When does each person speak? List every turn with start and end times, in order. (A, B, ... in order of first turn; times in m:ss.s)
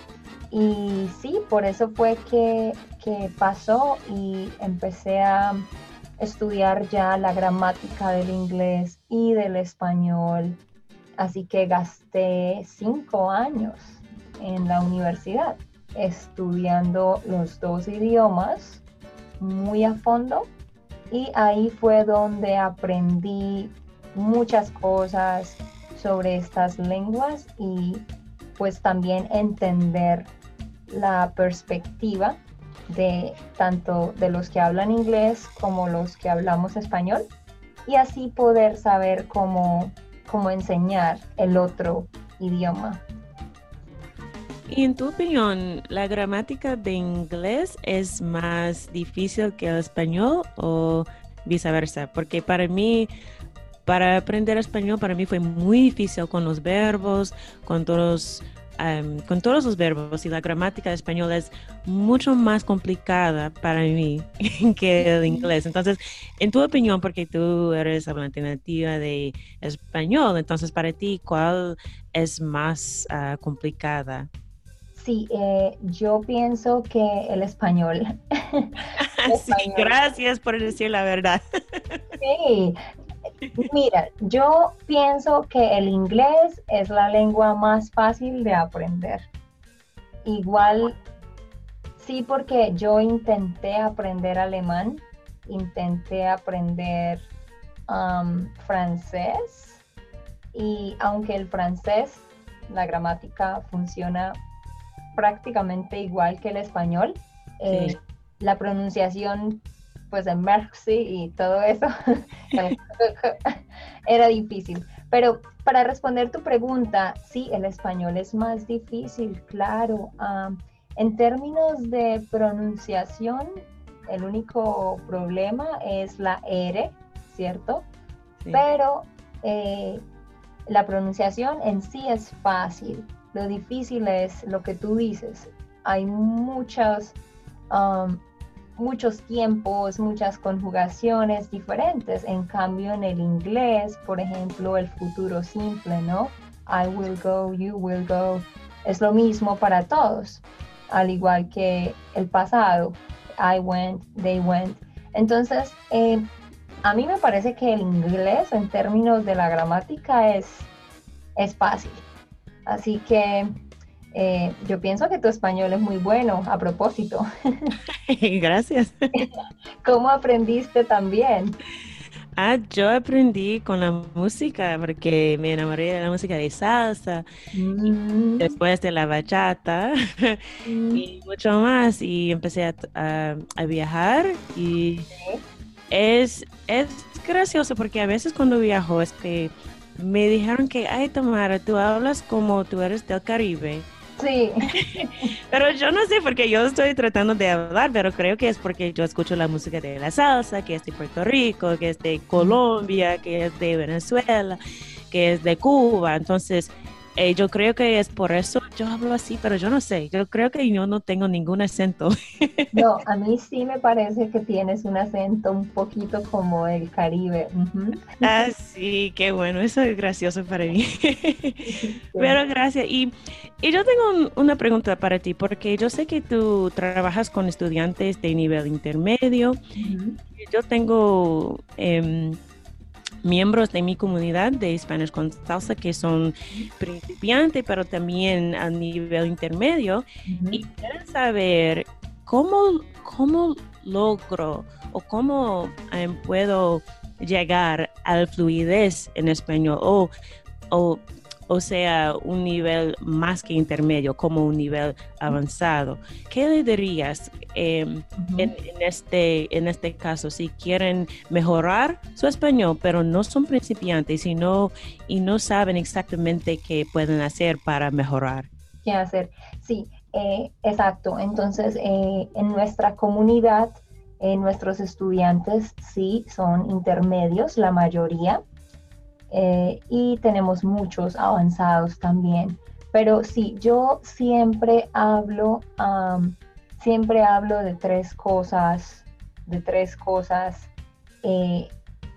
0:00.5-0:10.6 A
0:11.2-0:18.8 A
0:19.4-0:20.5 A
0:21.1-0:30.3 A
0:30.9-0:37.3 A
0:37.9-0:43.0 A
0:44.7-0:53.1 B
0:53.9-1:14.3 B
1:05.0-1:05.5 A
1:14.9-1:20.0 A
1:19.0-1:22.2 B
1:22.2-1:22.8 A
1:23.6-1:29.3 A
1:30.2-1:31.0 A
1:32.0-1:37.3 A
1:37.9-1:39.8 A
1:40.5-1:44.4 A
1:45.2-2:07.9 A
1:47.7-1:48.0 B
2:08.5-2:10.0 A
2:10.7-2:17.2 A
2:17.7-2:18.2 A
2:18.8-2:36.2 A
2:36.8-2:40.7 A
2:41.4-2:42.0 A
2:42.7-2:43.5 A
2:44.1-2:47.7 A
2:48.1-2:49.2 B
2:49.8-2:51.6 A
2:52.4-2:57.3 B
2:57.5-2:58.5 A
2:57.9-3:00.4 B
3:00.6-3:01.0 A
3:00.9-3:05.1 B
3:05.2-3:05.4 A
3:05.9-3:13.9 B
3:14.2-3:15.3 A
3:14.7-3:24.6 B
3:22.4-3:22.6 A
3:25.1-3:32.8 B
3:32.7-3:38.3 A
3:38.2-3:49.6 B
3:41.7-3:42.4 A
3:49.8-3:50.2 A
3:50.4-3:52.4 B
3:53.2-4:10.1 B
4:00.3-4:00.6 A
4:10.7-4:28.5 B
4:18.2-4:18.5 A
4:28.8-4:38.4 A
4:39.3-4:50.7 A
4:51.2-4:51.7 A